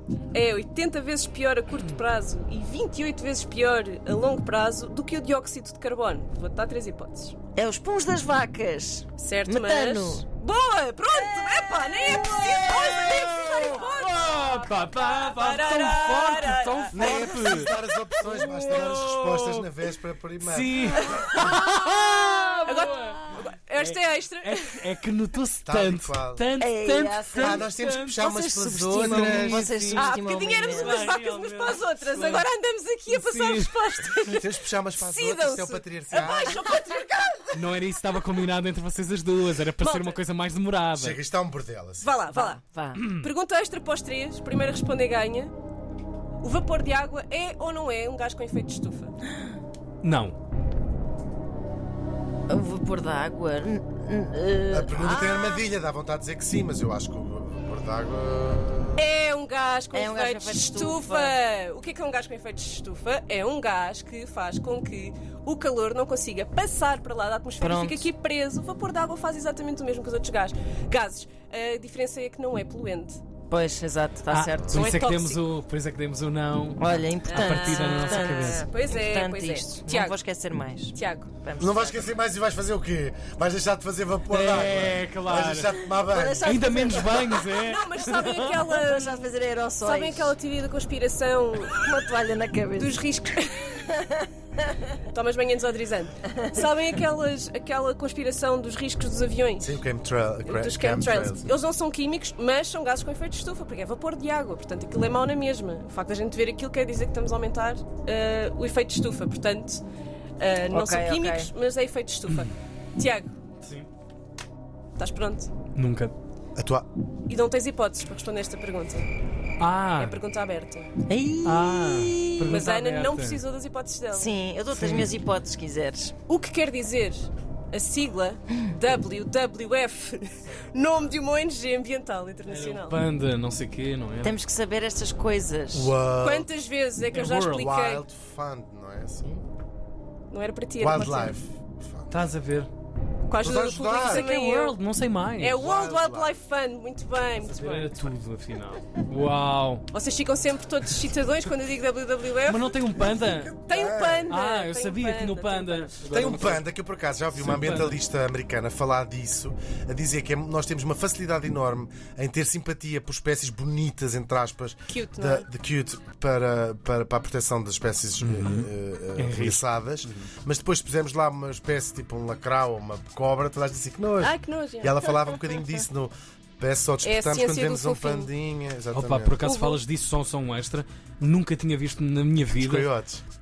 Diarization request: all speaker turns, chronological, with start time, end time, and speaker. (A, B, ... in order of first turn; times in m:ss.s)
0:00.3-0:07.4 A
0:07.6-0:10.3 B
0:09.2-0:17.2 A
0:11.1-0:13.3 B
0:12.4-0:19.7 C
0:16.9-0:21.0 D
0:20.4-0:28.3 C
0:21.0-0:21.5 A
0:22.6-0:24.7 A
0:25.6-0:26.4 D
0:26.6-0:31.0 B
0:27.4-0:29.7 D
0:28.9-0:32.5 C
0:30.0-0:34.4 A
0:33.1-0:34.1 C
0:34.2-0:36.6 D
0:35.0-0:37.6 A
0:37.5-0:41.2 C
0:39.8-0:40.2 A
0:41.0-0:42.1 D
0:42.0-0:45.5 A
0:42.3-0:43.0 B
0:43.0-0:43.3 C
0:46.4-0:49.2 A
0:50.0-0:50.4 C
0:52.5-0:55.6 B
0:54.7-0:59.1 D
0:59.0-1:13.2 A
0:59.9-1:01.4 B
1:07.6-1:08.1 B
1:13.5-1:14.8 B
1:14.3-1:18.6 C
1:14.7-1:15.5 A
1:16.8-1:22.1 B
1:17.2-1:20.2 A
1:20.9-1:21.3 A
1:21.6-1:26.5 D
1:24.3-1:25.8 C
1:25.9-1:27.3 B
1:26.4-1:28.7 C
1:27.3-1:29.3 A
1:28.7-1:30.4 B
1:29.8-1:31.8 A
1:31.6-1:33.0 B
1:32.8-1:33.9 A
1:35.0-1:39.8 A
1:39.6-1:41.5 D
1:40.4-1:49.8 A
1:50.4-1:53.3 A
1:50.7-1:51.5 B
1:53.6-1:53.9 C
1:55.0-1:55.5 A
1:55.8-1:56.1 C
1:56.6-1:56.9 D
1:57.3-1:59.1 A
1:59.6-2:00.2 C
2:00.0-2:00.9 A
2:01.1-2:02.6 B
2:01.4-2:03.4 C
2:02.5-2:04.4 A
2:04.1-2:06.2 B
2:04.8-2:05.1 C
2:06.3-2:13.0 A
2:12.5-2:14.3 C
2:14.2-2:15.9 B
2:15.7-2:16.5 D
2:16.2-2:18.0 A
2:17.1-2:17.8 C
2:17.5-2:19.5 D
2:20.3-2:21.4 A
2:20.8-2:22.2 D
2:22.1-2:22.7 C
2:23.3-2:24.8 A
2:23.4-2:24.3 D
2:24.0-2:25.6 C
2:25.4-2:27.9 A
2:25.6-2:26.4 D
2:27.4-2:29.8 C
2:29.9-2:32.7 A
2:32.4-2:33.6 C
2:33.5-2:35.9 A
2:33.7-2:34.4 D
2:34.3-2:36.7 C
2:36.0-2:59.4 D
2:37.3-2:38.0 C
2:44.9-2:45.5 A
2:48.2-2:50.3 C
2:54.2-2:55.1 A
2:57.0-2:58.3 A
2:58.9-3:02.9 C
2:59.4-2:59.8 A
3:02.6-3:03.2 D